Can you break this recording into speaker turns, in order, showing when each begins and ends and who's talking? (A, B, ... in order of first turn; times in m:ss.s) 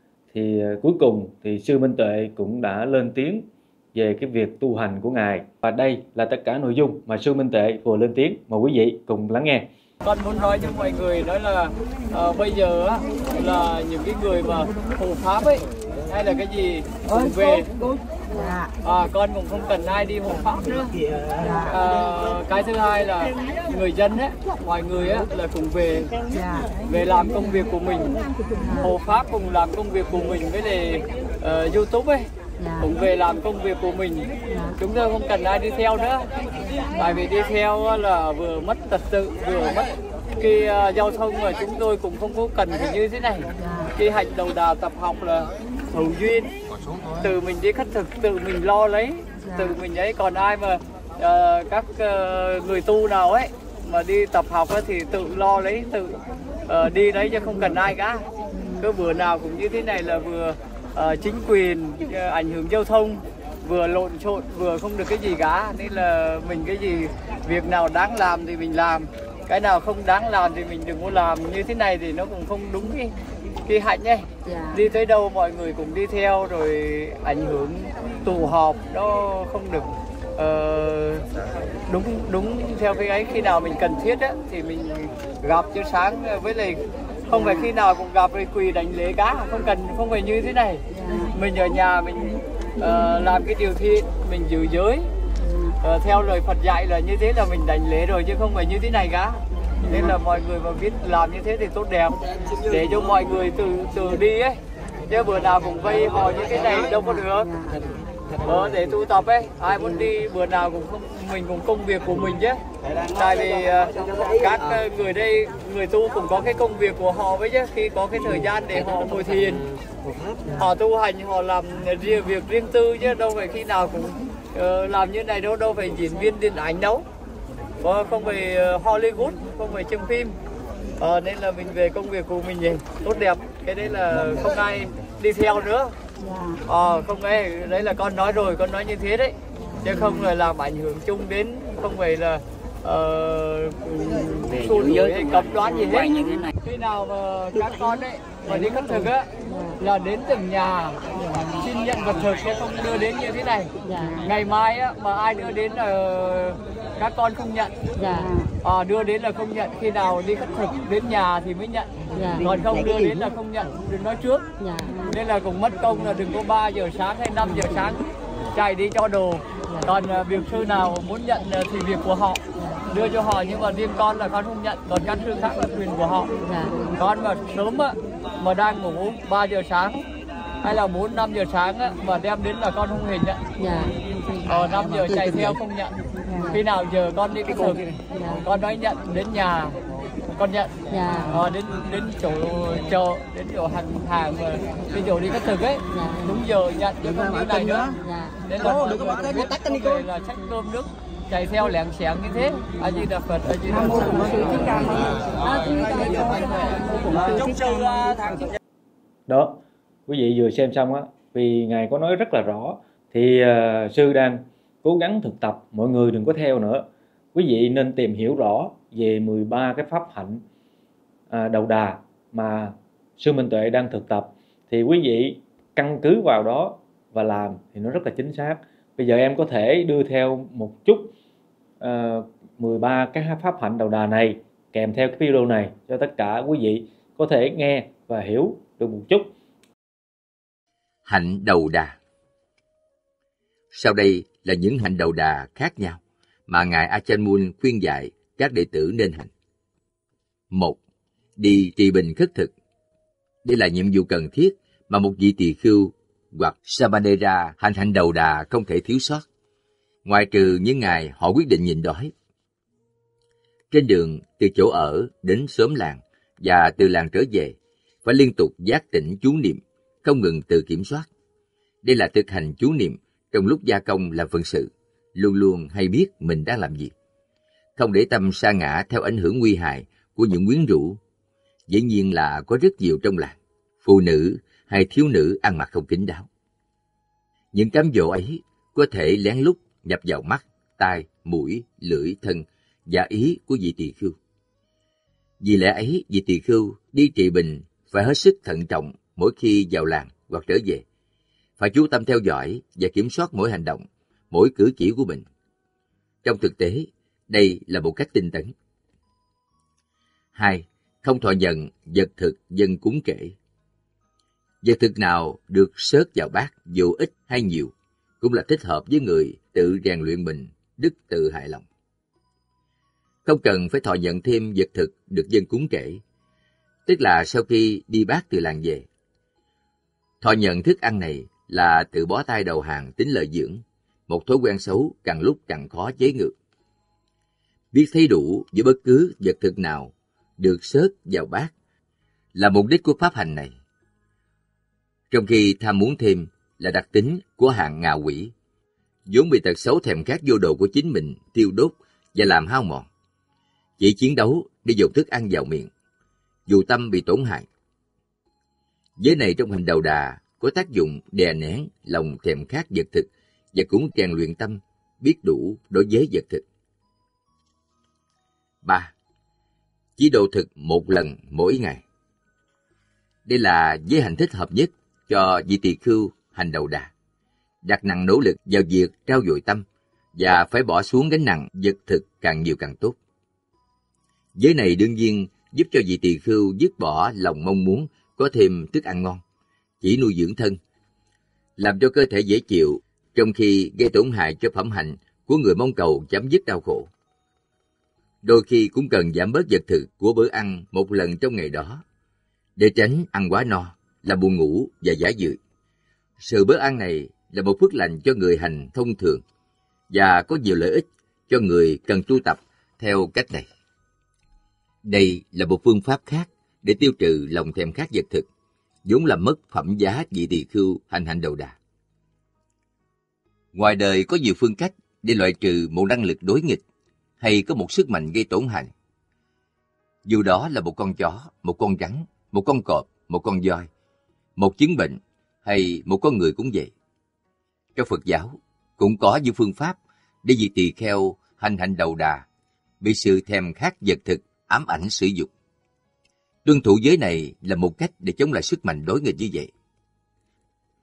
0:00.3-0:09.7 A
0:10.0-0:17.7 B
0:18.8-0:21.0 B
0:21.5-0:26.2 B
0:26.9-0:28.2 B
0:28.6-0:28.9 C
0:28.8-0:32.3 B
0:32.6-0:32.9 C
0:32.8-0:36.3 B
0:34.5-0:34.8 C
0:37.0-0:46.5 B
0:43.6-0:43.9 C
0:47.2-0:58.3 B
0:58.5-0:58.8 C
0:58.8-1:13.2 B
1:13.7-1:21.3 B
1:14.5-1:14.8 C
1:21.9-1:35.1 B
1:27.3-1:27.7 C
1:30.9-1:31.3 C
1:35.4-1:35.7 C
1:35.8-1:47.5 B
1:48.4-1:52.6 B
1:53.1-1:59.7 B
2:00.6-2:07.0 B
2:07.8-2:10.3 B
2:11.0-2:16.0 B
2:16.7-2:29.3 B
2:29.5-2:29.8 C
2:29.8-2:31.0 B
2:31.2-2:31.5 C
2:31.6-2:33.7 B
2:33.8-2:34.3 C
2:34.2-2:44.5 B
2:38.0-2:38.5 C
2:42.1-2:42.6 C
2:44.6-2:45.1 C
2:45.1-2:56.3 B
2:47.6-2:47.9 C
2:56.4-2:57.0 C
2:57.0-3:00.0 B
3:00.6-3:03.4 B
3:03.6-3:04.0 C
3:04.5-3:05.9 B
3:06.3-3:06.6 C
3:06.5-3:09.8 B
3:08.1-3:08.4 C
3:10.4-3:10.8 B
3:10.9-3:11.4 C
3:11.3-3:28.1 B
3:15.9-3:16.4 C
3:18.0-3:18.4 C
3:29.3-3:40.4 A
3:41.3-3:51.2 A
3:51.8-3:59.4 A
4:01.1-4:02.0 D
4:03.7-4:09.3 D
4:10.5-4:10.8 D
4:11.4-4:12.5 D
4:13.4-4:19.2 D
4:20.0-4:22.1 D
4:23.7-4:31.1 D
4:31.8-4:36.9 D
4:37.8-4:41.0 D
4:41.7-4:46.3 D
4:47.5-4:54.2 D
4:55.4-5:00.8 D
5:01.6-5:05.2 D
5:06.2-5:08.5 D
5:10.4-5:13.4 D
5:14.6-5:21.6 D
5:23.2-5:26.0 D
5:26.9-5:28.9 D
5:30.2-5:36.4 D
5:37.7-5:41.5 D
5:42.4-5:43.6 D
5:45.1-5:48.3 D
5:49.1-5:52.9 D
5:53.8-5:55.7 D
5:56.5-5:57.5 D
5:59.0-6:06.4 D
6:08.6-6:08.9 D
6:10.0-6:11.8 D
6:13.3-6:16.9 D
6:17.6-6:23.0 D
6:24.4-6:29.2 D
6:29.8-6:30.6 D
6:31.6-6:36.9 D
6:38.2-6:41.8 D
6:42.6-6:45.4 D
6:46.2-6:49.2 D
6:49.9-6:53.5 D
6:54.8-6:58.3 D
6:58.8-7:01.6 D
7:03.5-7:06.6 D
7:07.2-7:08.7 D
7:10.0-7:13.7 D
7:14.4-7:16.7 D
7:17.8-7:22.2 D
7:22.8-7:25.3 D
7:26.4-7:29.5 D